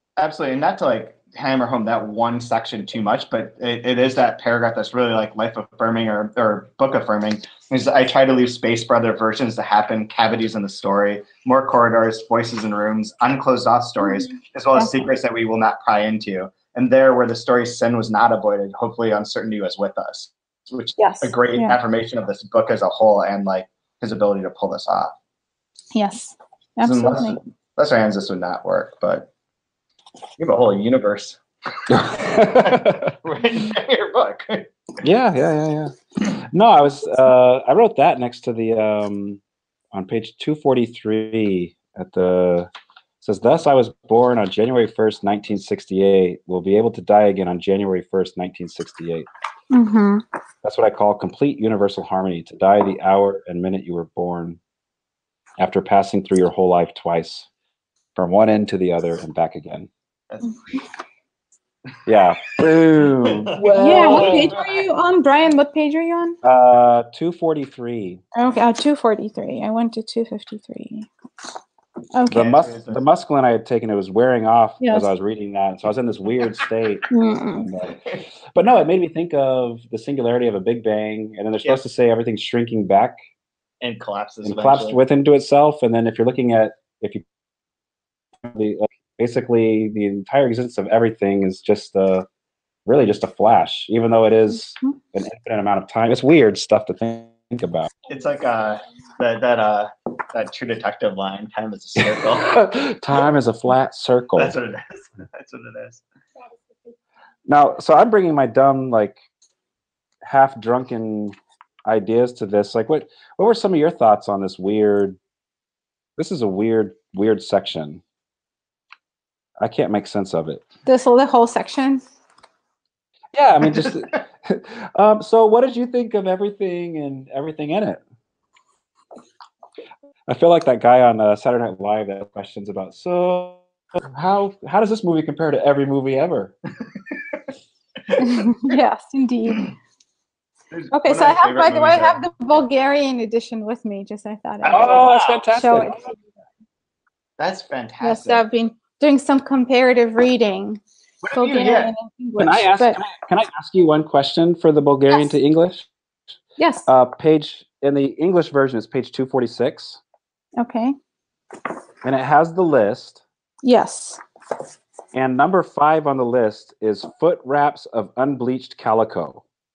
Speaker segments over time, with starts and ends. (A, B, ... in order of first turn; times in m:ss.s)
0:00.2-0:25.1 A
0:14.0-0:14.9 B
0:21.0-0:21.8 B
0:25.9-0:27.4 B
0:26.8-0:29.3 A
0:30.4-0:34.7 A
0:31.9-0:33.1 C
0:35.0-0:39.4 C
0:39.9-0:42.7 C
0:43.2-0:49.3 C
0:49.7-0:50.2 B
0:50.6-0:54.6 C
0:55.6-0:57.5 C
0:58.2-0:59.9 C
1:00.3-1:00.6 A
1:02.0-1:04.6 C
1:03.2-1:04.8 A
1:03.8-1:06.4 B
1:06.4-1:08.2 C
1:08.3-1:11.1 B
1:12.1-1:12.4 B
1:12.3-1:13.0 A
1:12.3-1:18.0 C
1:14.8-1:15.1 B
1:17.1-1:17.7 B
1:18.5-1:23.2 C
1:23.8-1:25.0 A
1:24.4-1:27.2 C
1:28.4-1:32.3 C
1:32.8-1:37.9 C
1:38.1-1:42.5 A
1:42.0-1:44.5 C
1:44.4-1:46.0 A
1:47.4-1:49.2 C
1:50.2-1:55.2 C
1:56.2-1:58.0 C
1:59.6-2:00.6 C
2:00.8-2:02.0 B
2:03.3-2:08.0 C
2:10.3-2:16.5 C
2:18.1-2:18.7 A
2:18.2-2:19.7 B
2:20.7-2:22.2 A
2:20.9-2:26.1 B
2:24.6-2:25.4 A
2:24.7-2:26.0 C
2:27.4-2:28.4 A
2:28.0-2:30.8 B
2:31.2-2:31.9 A
2:31.3-2:33.0 B
2:32.4-2:35.9 C
2:36.6-2:36.9 B
2:36.9-2:40.0 C
2:40.6-2:41.0 B
2:42.0-2:43.2 C
2:43.6-2:44.2 B
2:45.1-2:49.4 C